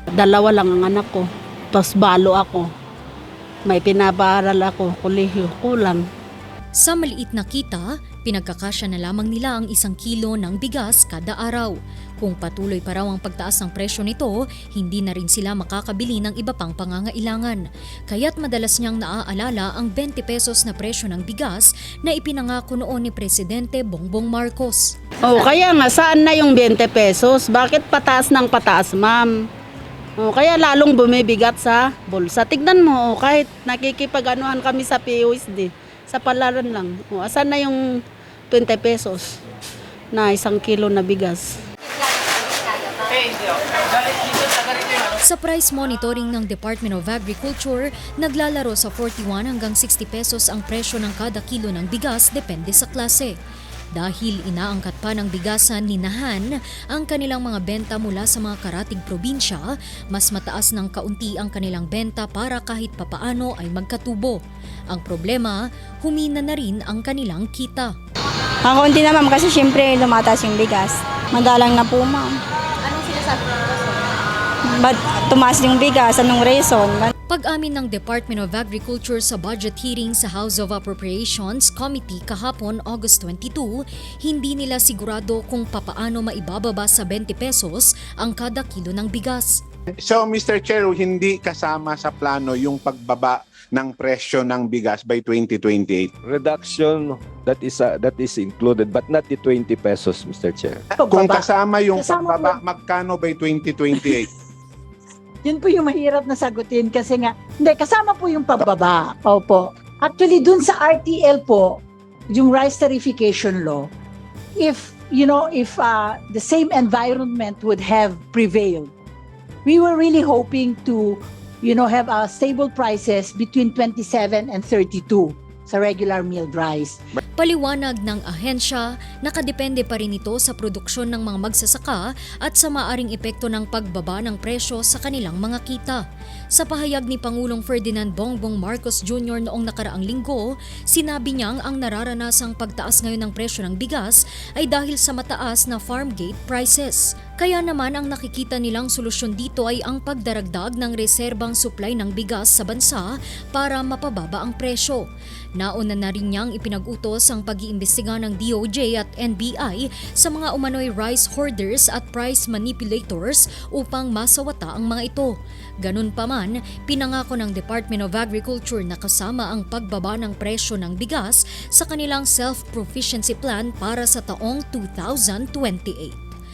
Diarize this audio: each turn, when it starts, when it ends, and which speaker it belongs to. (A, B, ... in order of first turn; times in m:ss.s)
0:00.2-0:02.7 A
0:03.7-0:06.0 A
0:06.8-0:24.9 B
0:25.2-0:29.3 A
0:30.2-0:37.8 A
0:38.5-0:39.3 A
0:40.1-0:41.4 A
0:45.2-0:53.3 B
0:53.9-1:04.4 B
1:04.9-1:07.9 B
1:08.6-1:12.4 C
1:14.7-1:17.1 C
1:17.3-1:29.6 B
1:30.0-1:36.1 D
1:36.3-1:40.8 E
1:41.0-1:42.6 F
1:41.1-1:44.3 D
1:45.4-1:53.9 F
1:54.6-1:58.9 F
1:59.7-2:07.0 F
2:07.4-2:16.0 B
2:16.5-2:35.0 B
2:35.6-2:45.3 B
2:45.8-2:56.3 B